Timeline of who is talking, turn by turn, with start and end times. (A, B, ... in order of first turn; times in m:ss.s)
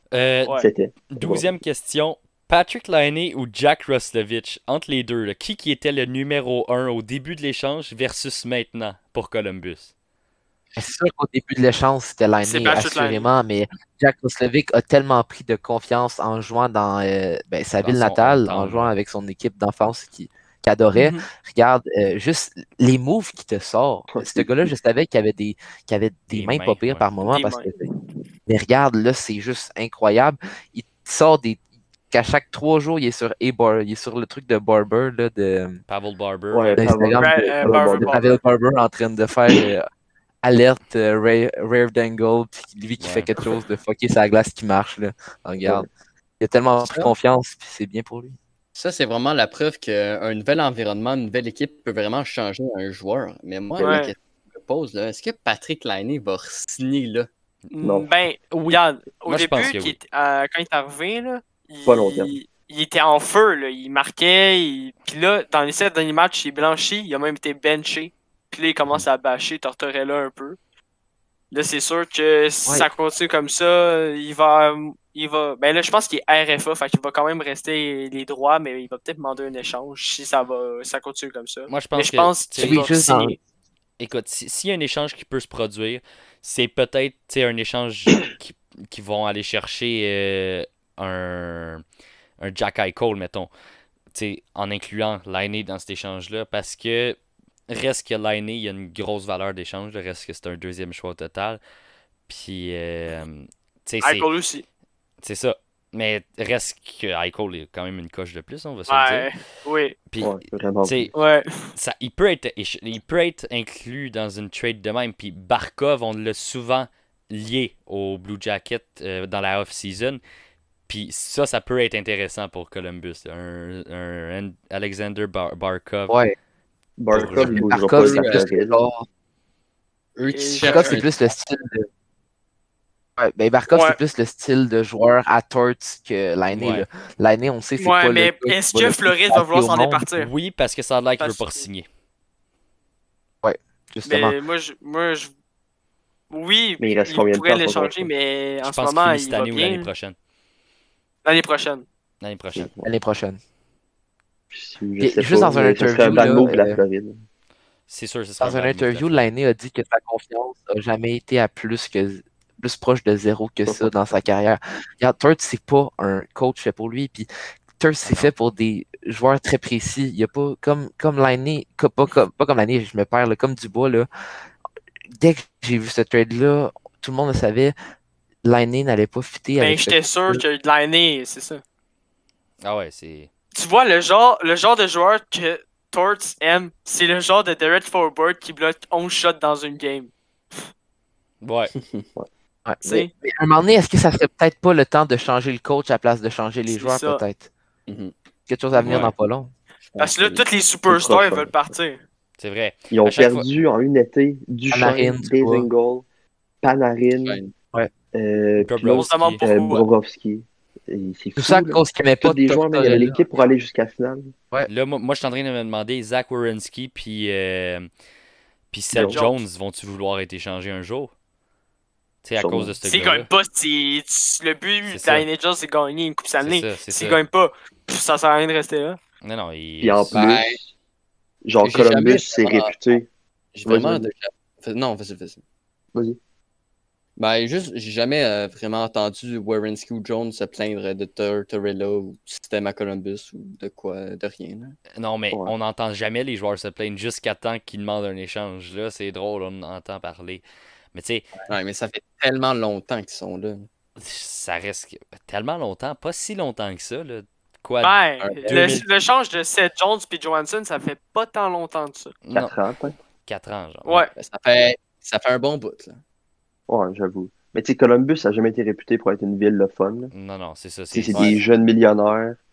0:00.1-0:00.6 A
0:00.6-0:01.5 B
0:01.1-0:09.9 A
0:10.8-0:27.8 C
0:12.4-0:13.3 D
0:17.8-0:18.9 A
0:20.9-0:21.3 D
0:24.1-0:24.5 B
0:26.3-0:27.1 A
0:27.2-0:28.2 D
0:28.5-0:31.6 C
0:32.1-0:35.8 C
0:35.9-0:36.9 A
0:36.5-0:38.4 B
0:36.8-0:39.9 C
0:37.2-0:38.3 D
0:40.4-0:45.9 C
0:43.0-0:43.3 A
0:46.4-0:48.4 C
0:46.8-0:47.1 E
0:48.7-0:57.3 E
0:53.8-0:54.0 B
0:53.8-0:54.1 D
0:57.7-1:10.6 D
0:57.8-0:58.1 B
0:59.3-1:00.0 A
1:01.9-1:02.3 B
1:11.5-1:23.4 D
1:21.7-1:22.9 A
1:22.6-1:23.4 C
1:24.0-1:31.8 A
1:32.4-1:33.5 A
1:34.1-1:41.6 A
1:42.3-1:44.3 A
1:44.0-1:44.6 D
1:45.2-1:49.3 A
1:48.9-1:50.0 D
1:50.1-1:51.1 A
1:50.2-1:51.1 B
1:51.1-1:51.7 D
1:51.7-2:00.2 A
2:00.9-2:06.2 A
2:07.0-2:08.8 B
2:07.1-2:08.1 A
2:07.1-2:09.1 C
2:08.0-2:08.4 E
2:10.2-2:11.1 E
2:10.3-2:11.0 D
2:10.6-2:11.9 C
2:13.2-2:20.1 C
2:13.7-2:14.0 D
2:16.5-2:16.9 A
2:17.8-2:20.3 D
2:20.2-2:21.9 A
2:21.2-2:21.6 D
2:23.4-2:24.4 C
2:24.0-2:25.3 D
2:26.3-2:29.9 D
2:26.8-2:28.1 B
2:28.6-2:30.2 A
2:31.2-2:31.9 D
2:32.2-2:32.7 A
2:32.5-2:32.9 B
2:32.8-2:33.4 C
2:34.5-2:37.2 B
2:35.0-2:36.8 C
2:37.9-2:39.2 A
2:38.4-2:47.3 C
2:47.8-2:54.1 C
2:48.0-2:48.3 A
2:55.2-2:57.7 C
2:58.4-3:00.4 C
2:59.6-3:01.6 D
3:02.6-3:03.3 A
3:03.6-3:10.7 D
3:11.4-3:11.7 A
3:11.8-3:12.1 E
3:12.7-3:17.5 C
3:12.8-3:13.1 D
3:16.7-3:17.2 D
3:17.9-3:18.1 E
3:18.5-3:19.5 C
3:18.8-3:19.1 A
3:19.9-3:20.4 E
3:20.0-3:22.0 D
3:20.9-3:21.6 B
3:22.4-3:23.5 A
3:22.9-3:26.0 B
3:24.7-3:25.7 C
3:26.6-3:27.4 B
3:27.2-3:27.5 E
3:28.1-3:34.3 B
3:28.6-3:29.4 A
3:29.0-3:29.9 D
3:31.4-3:33.1 C
3:32.8-3:33.1 E
3:34.7-3:37.9 A
3:38.7-3:41.1 A
3:38.9-3:39.2 B
3:39.0-3:39.4 D
3:42.2-3:43.3 A
3:42.4-3:42.8 B
3:42.8-3:49.0 D
3:44.9-3:45.3 A
3:46.4-3:47.2 A
3:49.2-3:50.2 A
3:49.8-3:50.7 B
3:50.1-3:50.6 E
3:51.4-3:53.1 B
3:51.6-3:52.8 E
3:53.6-3:55.4 E
3:53.7-3:54.1 B
3:57.2-4:04.8 E
4:05.0-4:11.3 A
4:11.5-4:13.7 E
4:14.0-4:18.9 A
4:17.8-4:22.1 D
4:18.2-4:18.8 E
4:22.2-4:22.6 A
4:22.3-4:23.0 B
4:23.3-4:24.1 A
4:23.8-4:24.1 D
4:24.2-4:26.0 E
4:26.7-4:30.1 B
4:30.1-4:31.4 A
4:30.9-4:32.4 B
4:31.1-4:31.4 E